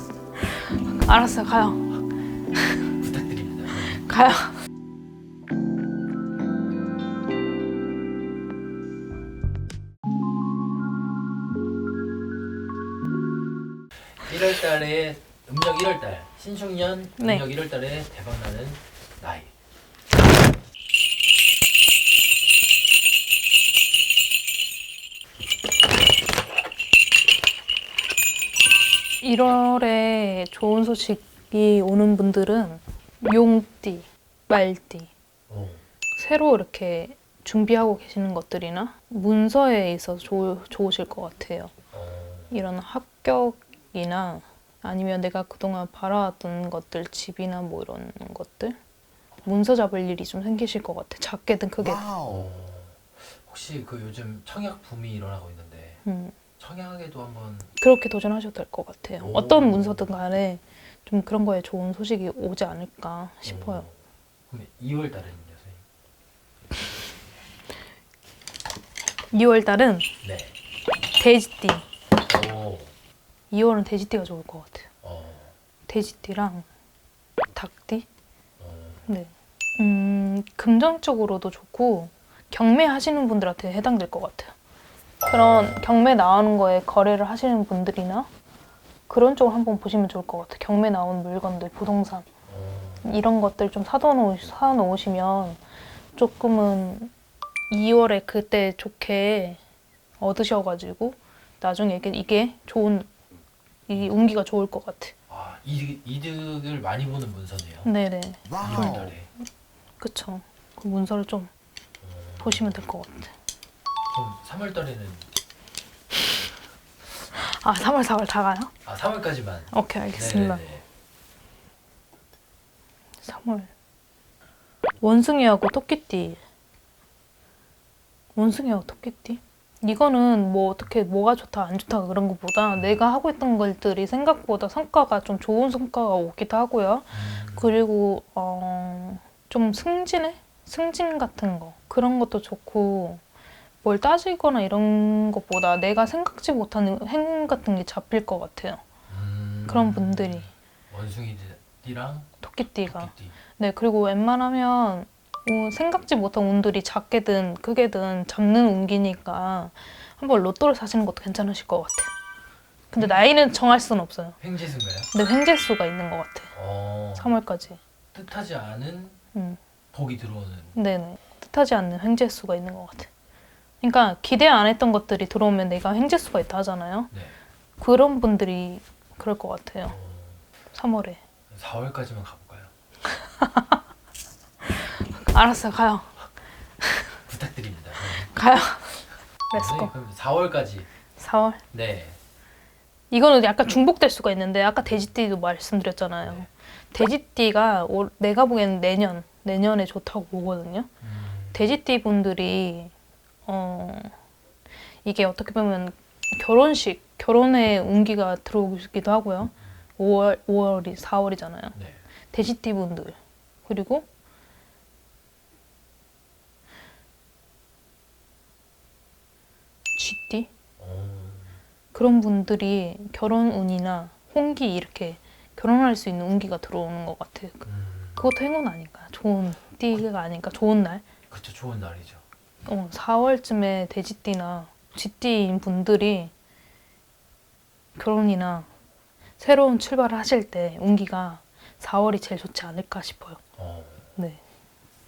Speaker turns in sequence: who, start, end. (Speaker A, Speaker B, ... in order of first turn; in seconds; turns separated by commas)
Speaker A: 0.4-1.8, Speaker A: 2.5-2.8, Speaker B: 3.0-4.0, Speaker A: 3.9-4.6, Speaker B: 14.1-19.5, Speaker A: 17.2-17.4, Speaker A: 29.2-35.1, Speaker B: 35.5-35.8, Speaker A: 36.1-41.7, Speaker B: 41.9-42.6, Speaker A: 42.5-48.8, Speaker A: 49.4-52.1, Speaker B: 52.2-56.0, Speaker A: 56.0-56.4, Speaker B: 56.6-57.7, Speaker A: 57.8-63.9, Speaker B: 59.2-60.2, Speaker B: 63.4-64.0, Speaker B: 64.5-65.8, Speaker A: 69.3-70.1, Speaker B: 70.2-70.5, Speaker A: 71.2-71.8, Speaker B: 72.3-72.9, Speaker A: 73.5-74.9, Speaker B: 75.0-75.5, Speaker A: 75.9-76.7, Speaker A: 77.5-78.1, Speaker B: 78.6-79.1, Speaker A: 79.1-84.5, Speaker B: 85.2-86.0, Speaker A: 85.3-88.3, Speaker A: 89.1-92.2, Speaker B: 92.5-93.1, Speaker A: 93.0-95.6, Speaker A: 96.1-97.1, Speaker A: 97.7-99.6, Speaker A: 100.2-103.1, Speaker A: 103.9-105.1, Speaker B: 105.3-107.9, Speaker A: 107.8-109.1, Speaker B: 108.6-109.3, Speaker A: 110.0-111.5, Speaker B: 112.0-112.8, Speaker A: 112.4-113.3, Speaker B: 114.1-115.2, Speaker A: 117.3-118.7, Speaker B: 118.8-120.8, Speaker A: 119.7-120.6, Speaker A: 123.2-123.7, Speaker A: 125.0-126.4, Speaker A: 128.3-143.2, Speaker B: 137.1-137.8, Speaker A: 143.8-148.8, Speaker B: 149.1-153.3, Speaker A: 149.7-150.5, Speaker A: 152.4-162.1, Speaker A: 162.9-164.4, Speaker B: 163.0-163.3, Speaker B: 164.4-165.1, Speaker A: 165.1-166.5, Speaker B: 166.5-167.4, Speaker A: 167.2-167.8, Speaker B: 168.1-169.2, Speaker A: 169.3-169.6, Speaker B: 169.9-170.8, Speaker A: 170.7-173.1, Speaker A: 173.8-177.1, Speaker B: 177.1-177.3, Speaker A: 177.8-179.9, Speaker B: 179.8-180.4, Speaker A: 180.7-181.2, Speaker B: 181.5-182.7, Speaker A: 183.1-183.8, Speaker A: 184.6-186.2, Speaker A: 186.8-187.1, Speaker B: 187.3-188.3, Speaker A: 188.1-189.9, Speaker B: 189.5-190.9, Speaker A: 191.2-191.6, Speaker B: 191.7-192.2, Speaker A: 193.1-200.9, Speaker B: 196.2-196.5, Speaker B: 201.0-201.7, Speaker A: 201.5-202.9, Speaker A: 203.4-204.1, Speaker A: 205.0-211.8, Speaker B: 211.7-212.0, Speaker A: 212.3-214.1, Speaker A: 219.9-220.5, Speaker B: 220.8-221.6, Speaker A: 221.9-231.0, Speaker B: 227.6-228.3, Speaker B: 231.3-232.2, Speaker A: 232.6-236.3, Speaker A: 237.9-238.7, Speaker A: 239.4-243.4, Speaker B: 243.6-244.1